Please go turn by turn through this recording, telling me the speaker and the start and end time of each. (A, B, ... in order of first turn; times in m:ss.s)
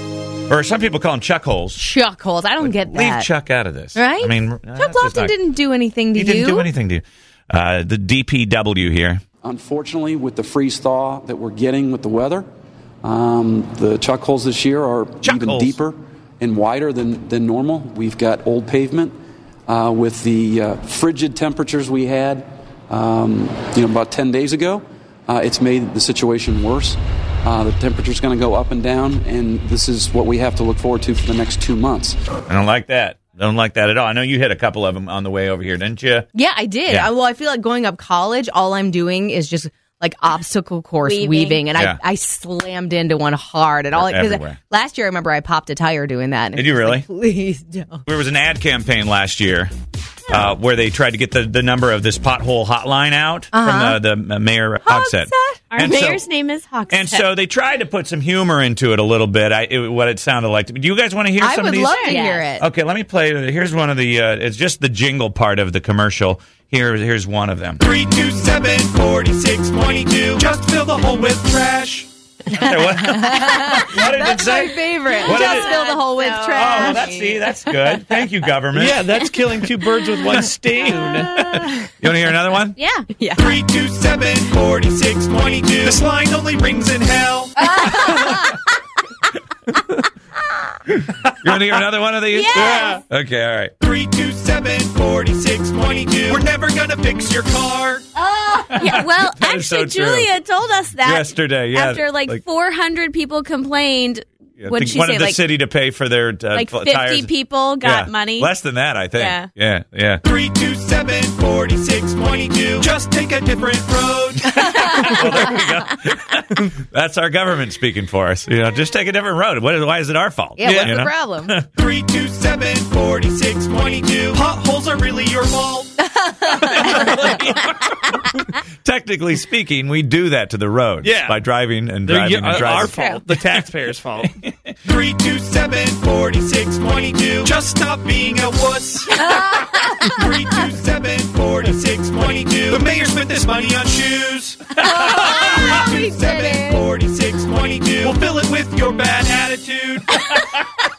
0:00.5-0:01.8 A
0:01.8-0:03.3 B
0:02.6-0:05.4 A
0:03.9-0:06.7 B
0:06.1-0:09.2 A
0:09.4-0:12.4 C
0:13.0-0:19.1 C
0:15.2-0:15.8 A
0:19.7-0:32.2 C
0:32.5-0:36.2 A
0:36.3-0:48.0 B
0:41.0-0:41.6 D
0:41.7-0:42.0 A
0:43.9-0:44.6 A
0:46.5-0:47.0 A
0:48.0-0:49.7 A
0:50.3-0:56.2 A
0:53.5-0:54.0 B
0:54.8-0:55.6 B
0:55.7-0:57.2 D
0:56.9-1:07.8 A
1:01.4-1:02.6 B
1:01.9-1:02.4 D
1:07.8-1:12.1 E
1:12.5-1:15.7 A
1:13.1-1:17.7 B
1:15.1-1:17.4 D
1:16.5-1:19.1 A
1:18.7-1:21.6 F
1:21.5-1:22.8 A
1:22.8-1:23.1 D
1:23.2-1:23.6 B
1:23.4-1:27.8 E
1:27.6-1:28.6 B
1:31.3-1:33.7 A
1:32.3-1:33.0 D
1:33.8-1:38.3 E
1:38.4-1:45.5 D
1:38.7-1:40.3 A
1:41.0-1:42.4 A
1:44.6-1:50.2 A
1:46.5-1:48.5 D
1:49.1-1:49.5 D
1:50.2-1:55.2 E
1:54.5-2:01.6 A
2:00.6-2:01.6 B
2:00.6-2:00.9 F
2:01.6-2:06.0 E
2:06.2-2:07.2 B
2:06.4-2:13.6 A
2:11.0-2:11.4 F
2:12.0-2:14.4 F
2:14.3-2:14.5 A
2:14.8-2:30.4 E
2:19.2-2:20.2 B
2:24.7-2:26.8 B